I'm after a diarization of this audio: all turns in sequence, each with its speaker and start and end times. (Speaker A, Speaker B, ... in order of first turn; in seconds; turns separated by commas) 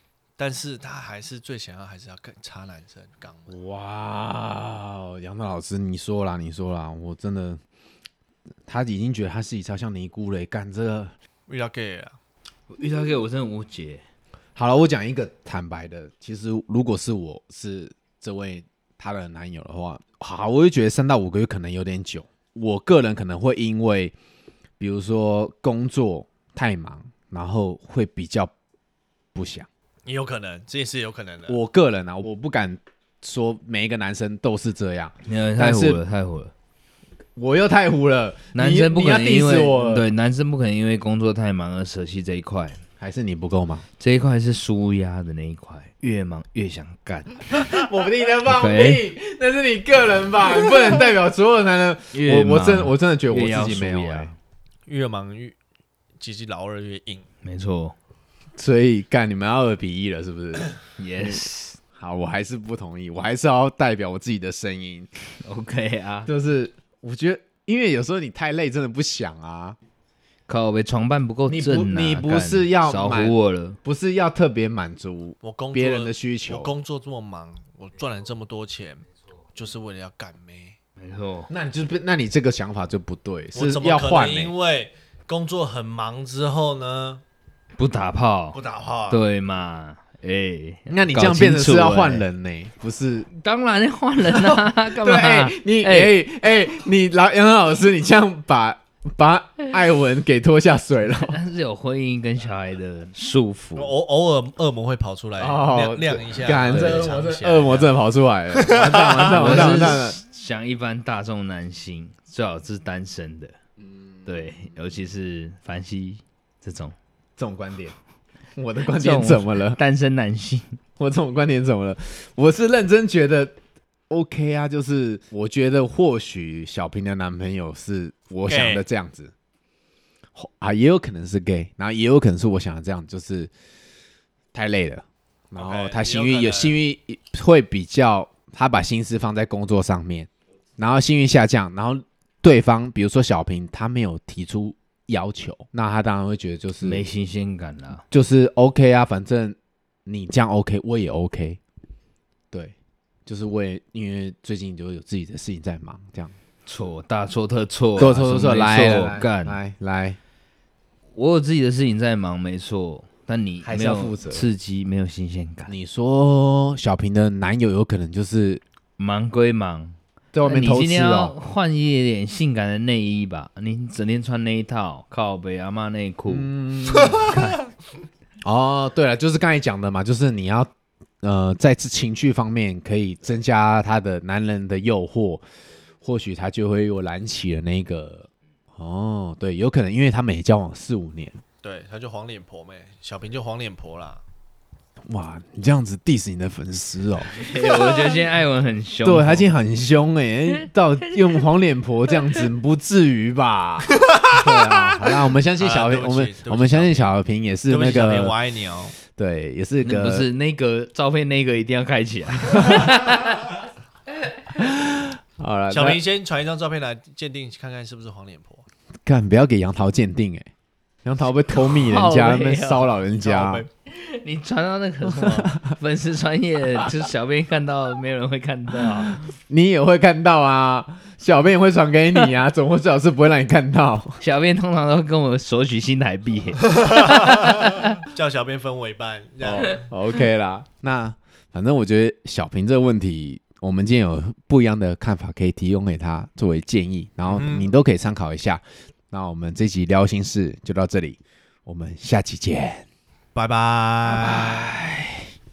Speaker A: 0.4-3.6, Speaker B: 3.5-7.6, Speaker B: 8.7-11.1, Speaker A: 11.5-12.2, Speaker C: 12.7-14.0, Speaker B: 14.6-24.1, Speaker B: 24.8-28.5, Speaker B: 29.4-29.7, Speaker A: 30.1-31.6, Speaker B: 31.5-36.0, Speaker C: 35.2-36.5, Speaker B: 37.4-40.1, Speaker C: 38.5-42.8, Speaker B: 43.0-43.9, Speaker C: 44.0-47.5, Speaker B: 47.7-54.3, Speaker C: 48.5-49.1, Speaker C: 52.1-54.4, Speaker A: 54.9-55.6, Speaker A: 56.2-57.2, Speaker C: 57.4-58.0, Speaker B: 58.6-65.1, Speaker C: 61.0-61.8, Speaker C: 65.4-66.3, Speaker B: 66.3-69.8, Speaker C: 70.5-73.8, Speaker B: 71.5-76.7, Speaker A: 75.4-80.8, Speaker C: 81.0-81.5, Speaker B: 81.5-84.5, Speaker A: 83.5-87.2, Speaker C: 87.8-92.3, Speaker A: 88.5-89.2, Speaker B: 90.9-93.3, Speaker C: 93.3-96.2, Speaker B: 94.2-101.4, Speaker C: 101.1-103.9, Speaker A: 103.8-108.0, Speaker B: 105.4-110.2, Speaker C: 106.7-107.1, Speaker A: 108.5-110.0, Speaker C: 109.2-113.5, Speaker C: 114.2-117.0, Speaker B: 117.4-118.0, Speaker B: 118.6-119.8, Speaker C: 118.8-120.8, Speaker B: 121.0-123.6, Speaker B: 124.1-129.3, Speaker A: 128.5-128.8, Speaker B: 130.3-133.5, Speaker B: 134.5-147.1, Speaker A: 135.6-136.8, Speaker C: 146.8-148.0, Speaker B: 148.1-151.6, Speaker B: 153.3-156.3, Speaker C: 156.7-159.6, Speaker B: 158.0-160.2, Speaker C: 161.1-165.7, Speaker B: 163.6-164.5, Speaker B: 165.7-168.6, Speaker C: 169.0-176.5, Speaker B: 170.3-171.4, Speaker B: 176.3-177.3, Speaker C: 177.1-177.7, Speaker B: 178.4-180.7, Speaker B: 181.2-185.4, Speaker B: 186.0-191.4, Speaker A: 191.6-194.2, Speaker B: 195.1-197.4, Speaker C: 197.3-199.6, Speaker B: 199.0-208.4, Speaker A: 204.1-207.1, Speaker A: 207.7-209.0, Speaker B: 209.0-210.3, Speaker C: 209.8-213.4, Speaker B: 214.6-216.0, Speaker A: 215.7-218.7, Speaker B: 219.1-220.5, Speaker B: 221.1-223.7, Speaker C: 221.6-223.0, Speaker A: 223.2-223.7, Speaker C: 223.9-229.2, Speaker A: 225.1-225.5, Speaker B: 229.4-234.2, Speaker C: 234.2-237.3, Speaker A: 236.8-239.9, Speaker B: 239.4-252.8, Speaker A: 247.3-247.7, Speaker A: 253.3-254.7, Speaker B: 254.1-255.3